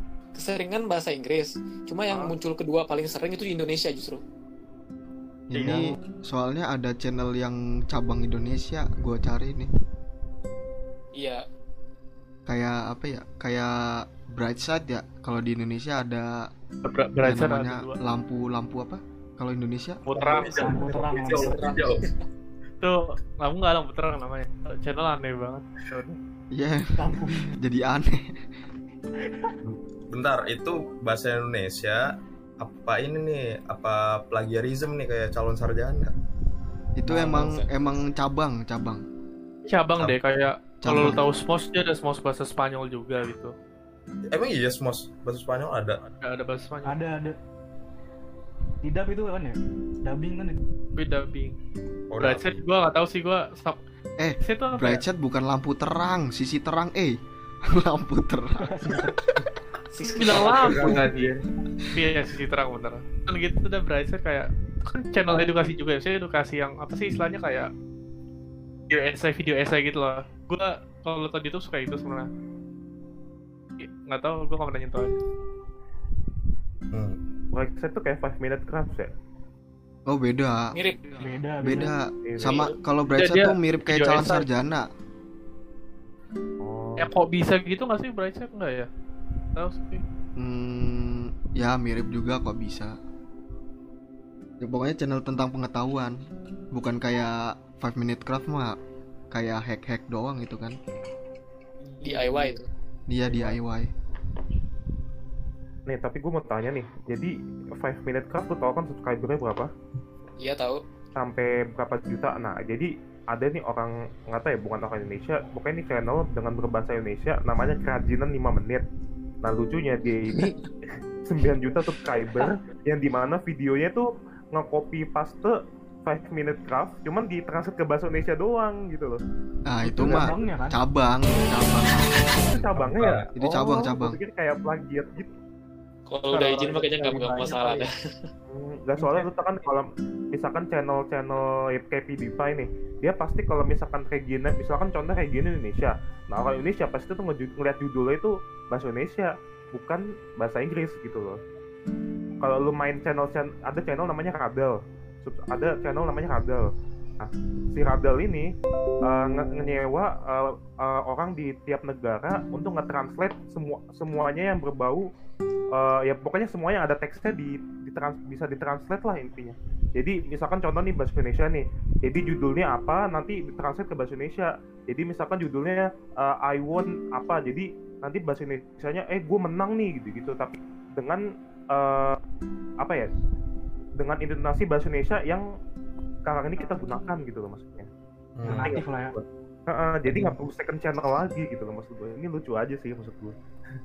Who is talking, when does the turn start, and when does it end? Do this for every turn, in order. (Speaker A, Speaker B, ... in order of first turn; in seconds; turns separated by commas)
Speaker A: 0.3-4.2, Speaker B: 5.5-9.7, Speaker A: 11.1-11.4, Speaker B: 12.5-16.4, Speaker C: 16.8-18.0, Speaker B: 17.2-20.7, Speaker C: 20.1-20.9, Speaker D: 20.2-22.1, Speaker E: 20.5-21.9, Speaker A: 21.3-22.0, Speaker C: 22.8-26.2, Speaker B: 26.5-28.3, Speaker E: 27.0-27.5, Speaker D: 29.6-32.0, Speaker D: 32.6-36.1, Speaker B: 37.0-39.0, Speaker E: 37.1-37.5, Speaker A: 37.2-37.7, Speaker C: 39.7-43.5, Speaker B: 40.8-41.2, Speaker D: 44.3-46.0, Speaker C: 46.1-47.0, Speaker E: 46.9-47.4, Speaker E: 48.8-50.6, Speaker C: 51.0-51.5, Speaker D: 52.1-52.6, Speaker C: 52.2-53.8, Speaker B: 54.2-59.0, Speaker C: 54.4-55.0, Speaker E: 58.6-59.1, Speaker A: 59.9-61.1, Speaker C: 60.1-61.3, Speaker D: 60.4-61.4, Speaker C: 61.9-67.7, Speaker C: 68.9-72.3, Speaker C: 73.8-75.2, Speaker D: 76.9-77.2, Speaker F: 77.5-79.1, Speaker B: 80.1-80.7, Speaker A: 80.7-81.0, Speaker E: 81.1-81.9, Speaker B: 81.6-84.8, Speaker F: 82.2-82.7, Speaker C: 83.1-84.5, Speaker F: 86.6-87.1, Speaker C: 87.0-88.9, Speaker C: 89.5-90.0, Speaker B: 90.4-92.9, Speaker B: 94.6-96.2, Speaker B: 96.7-98.8, Speaker B: 99.3-100.8, Speaker A: 102.0-102.7, Speaker E: 102.1-102.4, Speaker B: 103.1-103.9, Speaker F: 105.9-109.7, Speaker A: 110.4-110.8, Speaker F: 111.2-118.8, Speaker F: 119.4-120.5, Speaker F: 121.2-129.2, Speaker B: 129.7-132.3, Speaker E: 129.8-130.8, Speaker F: 132.5-135.3, Speaker D: 132.6-133.3, Speaker B: 133.3-134.2, Speaker A: 136.1-138.1, Speaker F: 136.3-137.8, Speaker F: 138.5-151.4, Speaker F: 152.4-156.7, Speaker F: 157.2-158.5, Speaker F: 159.0-165.1, Speaker F: 165.7-181.2, Speaker F: 181.7-182.2, Speaker F: 182.8-183.1, Speaker F: 184.0-185.4, Speaker F: 186.2-187.9, Speaker D: 188.3-188.8, Speaker E: 188.4-189.1, Speaker F: 188.5-193.3